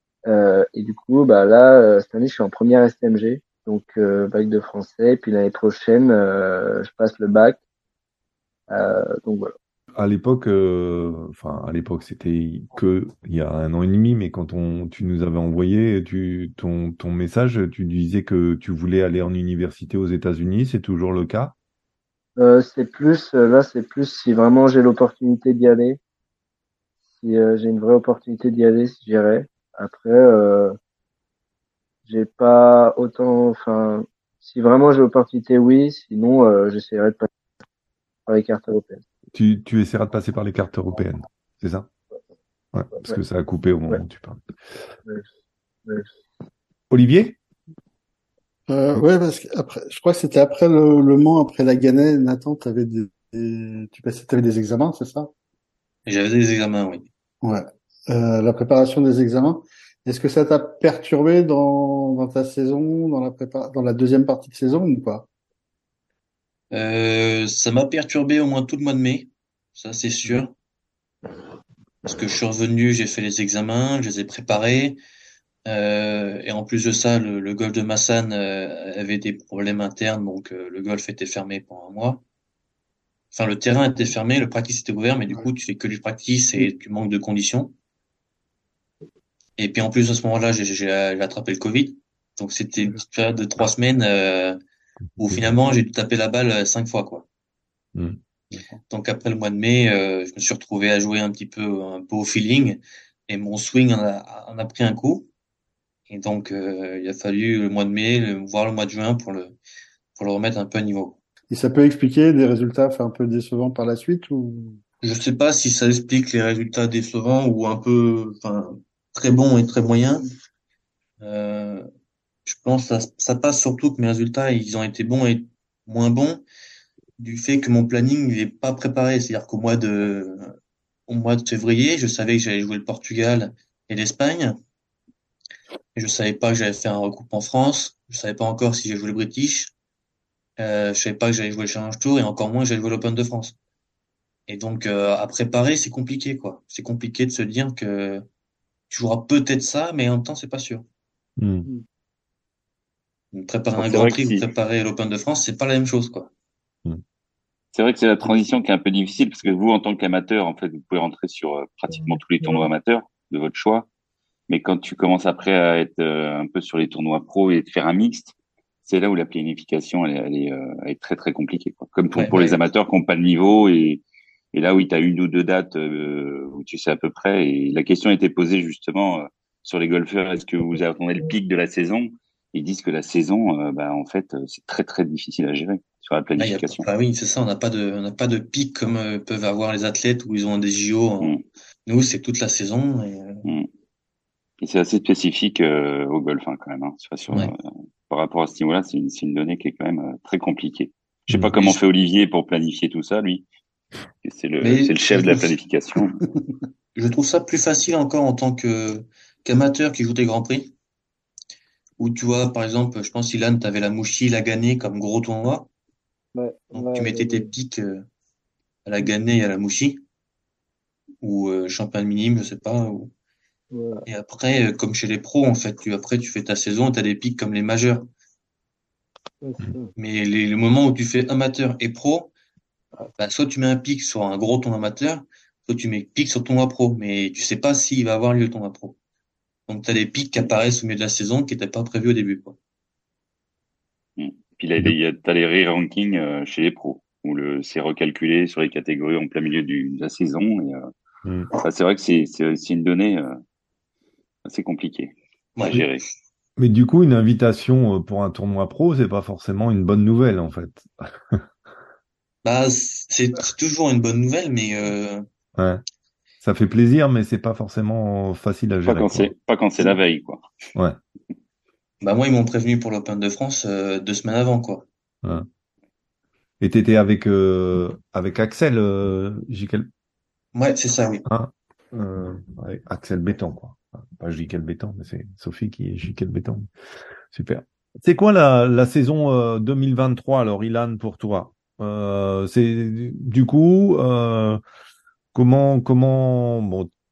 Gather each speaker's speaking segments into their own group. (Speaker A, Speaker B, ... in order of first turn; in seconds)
Speaker A: 0.3-7.6, 8.7-9.5, 22.4-26.0, 27.2-30.8, 32.1-37.3, 38.3-39.0, 216.3-217.5, 223.7-224.1, 229.4-229.9
Speaker B: 10.0-21.5, 39.3-41.9, 42.7-44.4, 46.9-47.4, 95.2-95.5, 151.4-151.7, 256.6-261.5, 265.6-265.8, 266.4-269.3, 276.6-279.9, 281.3-286.7, 287.3-294.6, 295.3-296.9
Speaker C: 48.7-55.3, 57.4-65.3, 111.5-114.8
Speaker D: 56.1-57.1, 66.7-70.5, 72.0-75.0, 75.7-82.2, 83.3-87.7, 89.6-94.6, 95.2-97.3, 98.9-105.3, 106.1-109.6, 110.2-111.2, 115.0-120.3, 121.2-121.9, 122.5-126.4, 127.2-130.5, 131.1-134.6, 135.9-139.7, 140.6-143.6, 144.5-148.2, 148.9-150.8, 153.3-156.3, 172.1-172.6, 186.4-193.5, 204.6-205.5, 206.9-210.7, 212.0-215.7, 216.7-218.1, 218.9-220.0, 221.2-223.1, 224.1-228.1, 230.0-232.3, 233.2-239.0, 239.7-242.6, 255.6-255.8, 262.4-265.2, 272.0-274.9, 280.6-281.2
Speaker E: 153.8-154.4, 157.7-163.9, 164.5-168.3, 168.9-174.0, 174.5-186.9, 194.6-203.5, 204.2-206.2, 244.2-250.9, 251.6-253.3, 254.5-255.1, 255.7-256.0, 268.9-270.4